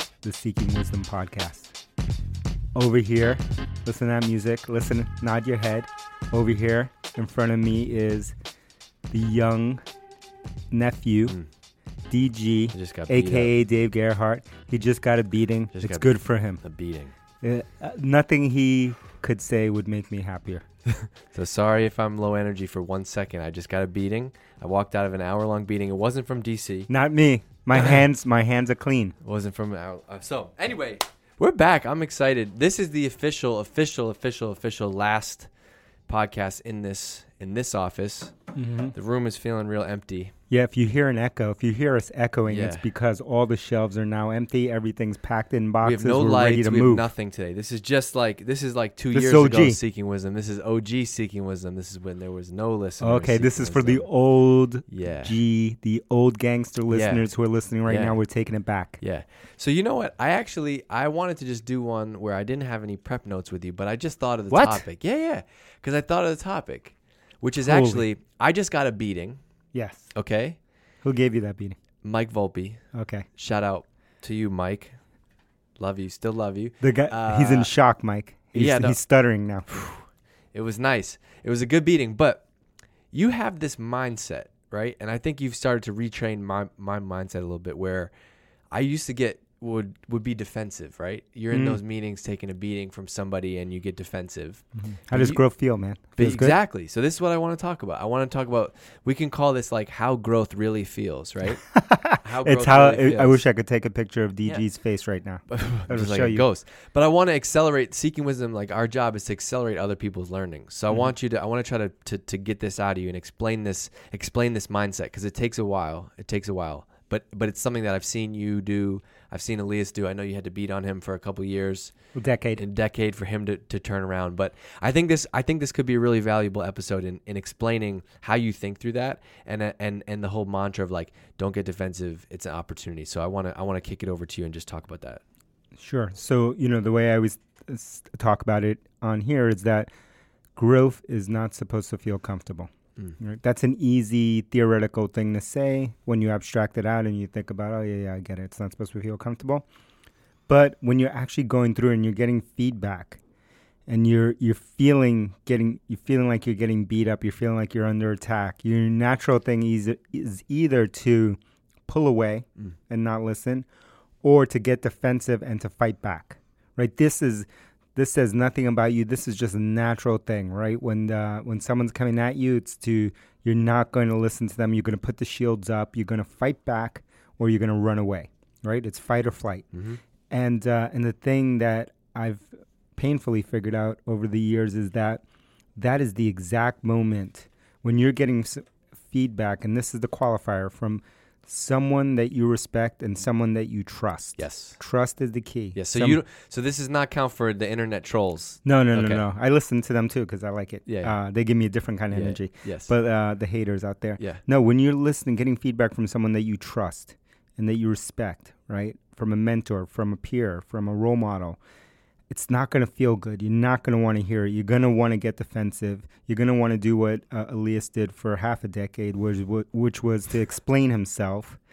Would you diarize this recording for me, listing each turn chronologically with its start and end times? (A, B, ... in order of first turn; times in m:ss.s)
0:00.2-0:01.7 A
0:02.7-0:08.3 A
0:09.1-0:09.8 A
0:10.7-0:11.4 A
0:12.1-0:16.6 A
0:12.7-0:13.5 B
0:15.7-0:17.1 B
0:17.4-0:20.6 A
0:21.0-0:26.9 B
0:26.9-0:29.2 A
0:29.2-0:35.5 B
0:36.1-0:38.4 B
0:38.5-0:38.9 A
0:38.9-0:40.3 B
0:40.5-0:47.1 A
0:42.5-0:42.9 B
0:45.8-0:54.1 B
0:49.1-0:49.8 A
0:53.0-0:59.0 A
0:54.9-0:55.4 B
0:56.9-0:57.2 B
0:57.8-0:58.2 B
0:59.0-1:09.4 B
1:04.5-1:04.8 A
1:07.6-1:08.1 A
1:09.7-1:10.1 A
1:10.1-1:10.6 B
1:11.0-1:11.8 A
1:12.0-1:12.8 B
1:12.9-1:13.2 A
1:13.4-1:14.9 B
1:15.8-1:17.7 B
1:16.8-1:19.6 A
1:18.5-1:19.0 B
1:19.7-1:22.4 B
1:23.1-1:28.1 B
1:28.7-1:35.4 B
1:31.5-1:31.8 A
1:34.9-1:36.6 A
1:36.2-1:41.6 B
1:41.6-1:46.4 A
1:42.2-1:43.4 B
1:45.5-2:01.9 B
2:02.1-2:02.6 A
2:02.6-2:15.2 B
2:15.8-2:19.9 A
2:20.6-2:29.6 A
2:30.5-2:33.2 A
2:33.9-2:43.6 A
2:44.2-2:59.7 A
2:59.7-3:00.0 B
3:00.3-3:05.2 A
3:05.8-3:16.2 A
3:14.4-3:14.8 B
3:15.7-3:19.2 B
3:18.6-3:31.6 A
3:20.8-3:21.2 B
3:22.1-3:22.9 B
3:32.3-3:41.6 A